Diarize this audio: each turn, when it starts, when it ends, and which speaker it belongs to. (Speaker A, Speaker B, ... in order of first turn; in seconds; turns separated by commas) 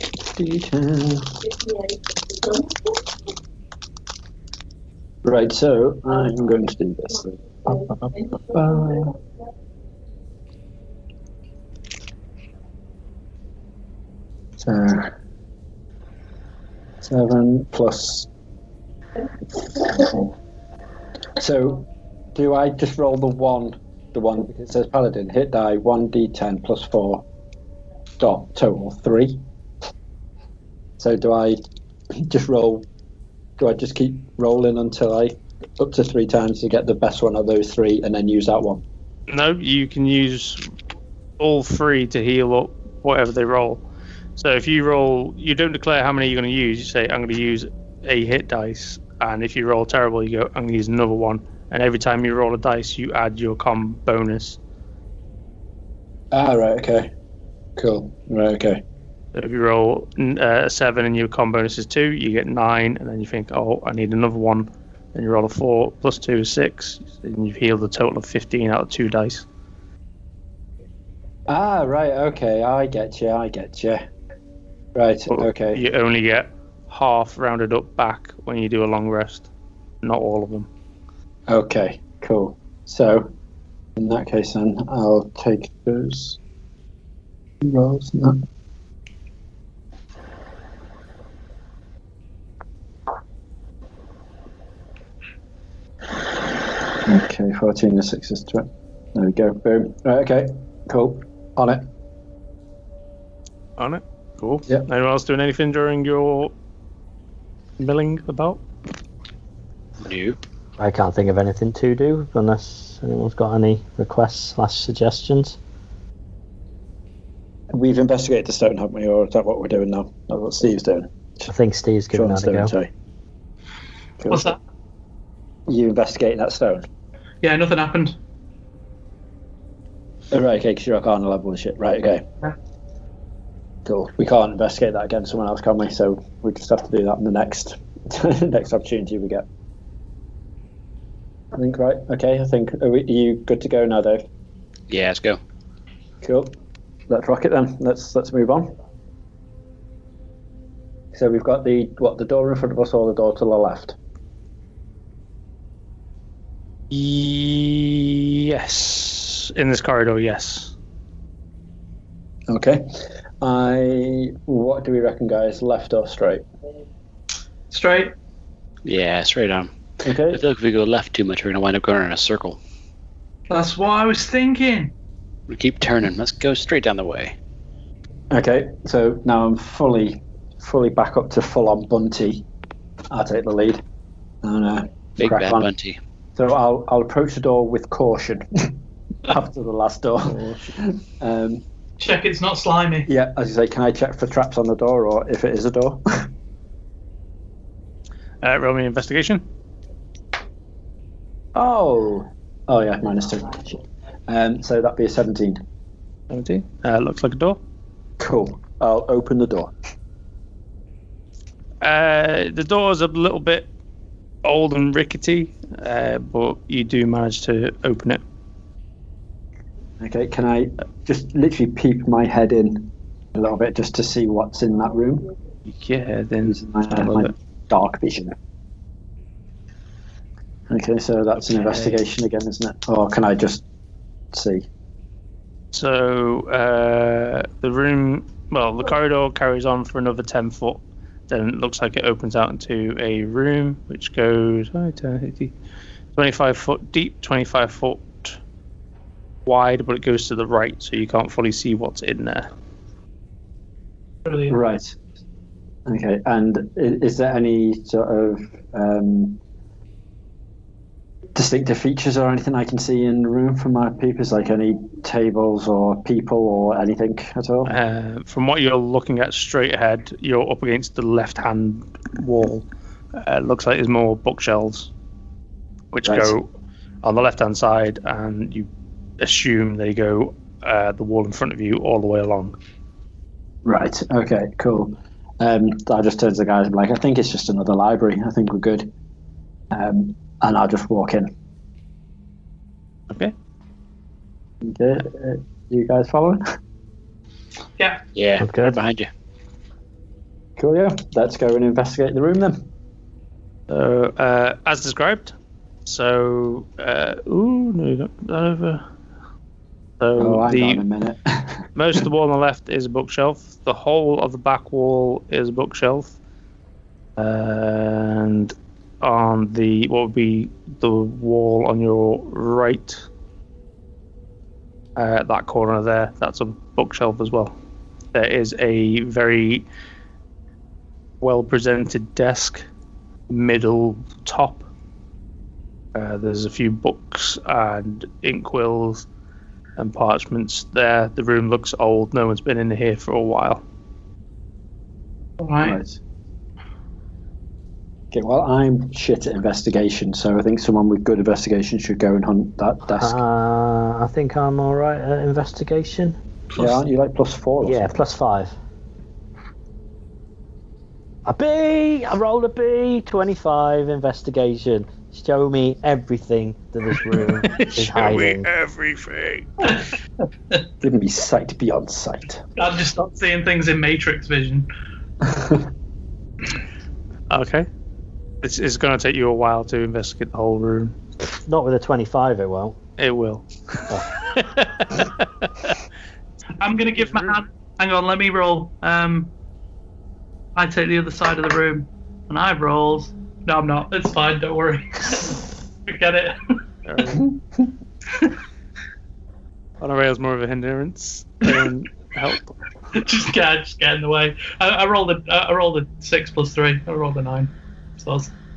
Speaker A: 0.3-1.5, Speaker A: 5.2-9.2, Speaker A: 14.6-15.1, Speaker A: 17.0-18.3, Speaker A: 19.6-20.3, Speaker A: 21.4-27.2, Speaker A: 28.2-29.4, Speaker A: 31.0-31.6, Speaker A: 32.2-32.9, Speaker A: 33.6-38.8, Speaker B: 39.3-40.7, Speaker B: 41.4-43.8, Speaker B: 44.4-54.6, Speaker A: 56.3-57.1, Speaker A: 57.8-58.8, Speaker B: 59.3-69.5, Speaker A: 71.5-74.0, Speaker A: 74.9-75.8, Speaker B: 75.3-79.5, Speaker B: 80.0-80.7, Speaker A: 81.5-83.3, Speaker A: 84.0-86.4, Speaker A: 87.6-88.4, Speaker A: 97.0-101.8, Speaker B: 103.8-106.5, Speaker B: 107.8-108.6, Speaker C: 110.0-110.4, Speaker D: 110.8-115.6, Speaker A: 117.7-121.5, Speaker D: 121.5-122.7, Speaker A: 122.1-122.9, Speaker A: 124.2-124.5, Speaker E: 124.3-124.6, Speaker A: 125.7-126.8, Speaker E: 127.4-128.2, Speaker A: 130.3-132.3, Speaker A: 133.8-139.5, Speaker A: 141.5-144.2, Speaker C: 144.9-145.4, Speaker A: 146.2-146.6, Speaker A: 147.1-148.7, Speaker A: 151.1-153.9, Speaker B: 156.9-160.7, Speaker A: 162.5-166.4, Speaker E: 167.7-168.1, Speaker C: 168.8-169.7, Speaker A: 170.0-170.4, Speaker C: 170.3-172.6, Speaker E: 173.5-174.9, Speaker C: 175.5-177.3, Speaker A: 178.3-182.4, Speaker A: 183.1-183.8, Speaker A: 184.4-185.7, Speaker C: 185.2-186.0, Speaker A: 186.3-191.6, Speaker B: 190.2-190.7, Speaker E: 192.0-193.1, Speaker A: 193.1-196.3, Speaker B: 198.4-199.4, Speaker A: 201.5-205.6, Speaker B: 206.3-207.6, Speaker A: 208.2-209.7, Speaker B: 211.8-213.7, Speaker B: 214.4-218.2, Speaker A: 220.0-225.3, Speaker B: 225.7-227.3, Speaker A: 226.4-228.3, Speaker A: 230.7-233.6, Speaker B: 231.4-232.0, Speaker A: 234.3-234.7, Speaker B: 235.7-245.5, Speaker B: 246.1-248.4, Speaker B: 249.4-252.5, Speaker E: 254.2-254.5, Speaker A: 254.5-254.9, Speaker A: 255.8-259.4, Speaker A: 261.3-267.7, Speaker B: 267.6-272.6, Speaker B: 273.1-274.9, Speaker B: 275.9-276.5, Speaker A: 276.1-276.3, Speaker B: 277.0-278.7, Speaker B: 279.2-282.6, Speaker A: 283.6-288.9, Speaker A: 289.7-291.3, Speaker A: 294.6-296.4, Speaker C: 298.1-299.1, Speaker D: 298.4-298.8, Speaker A: 300.6-302.6, Speaker B: 303.7-305.3, Speaker B: 305.9-308.9, Speaker B: 310.0-310.8, Speaker A: 310.2-311.6, Speaker B: 311.7-316.2, Speaker B: 317.2-323.1, Speaker B: 324.9-327.5, Speaker B: 328.1-329.6, Speaker B: 331.2-332.7, Speaker B: 333.3-334.7, Speaker B: 335.9-339.1, Speaker B: 339.8-343.6, Speaker E: 345.4-345.8, Speaker A: 345.6-346.0, Speaker A: 348.1-353.2, Speaker D: 352.9-356.2, Speaker E: 356.5-356.8, Speaker A: 356.6-357.9, Speaker D: 357.6-358.5, Speaker D: 361.2-368.5, Speaker B: 367.4-369.8, Speaker A: 370.8-372.4, Speaker E: 372.6-374.7, Speaker A: 375.2-375.7, Speaker B: 377.3-377.7, Speaker B: 378.4-380.9, Speaker D: 381.5-382.8, Speaker B: 383.0-385.7, Speaker E: 386.6-389.3, Speaker B: 387.0-387.4, Speaker E: 390.5-396.4, Speaker B: 396.8-397.2, Speaker B: 399.8-402.5, Speaker E: 402.9-408.3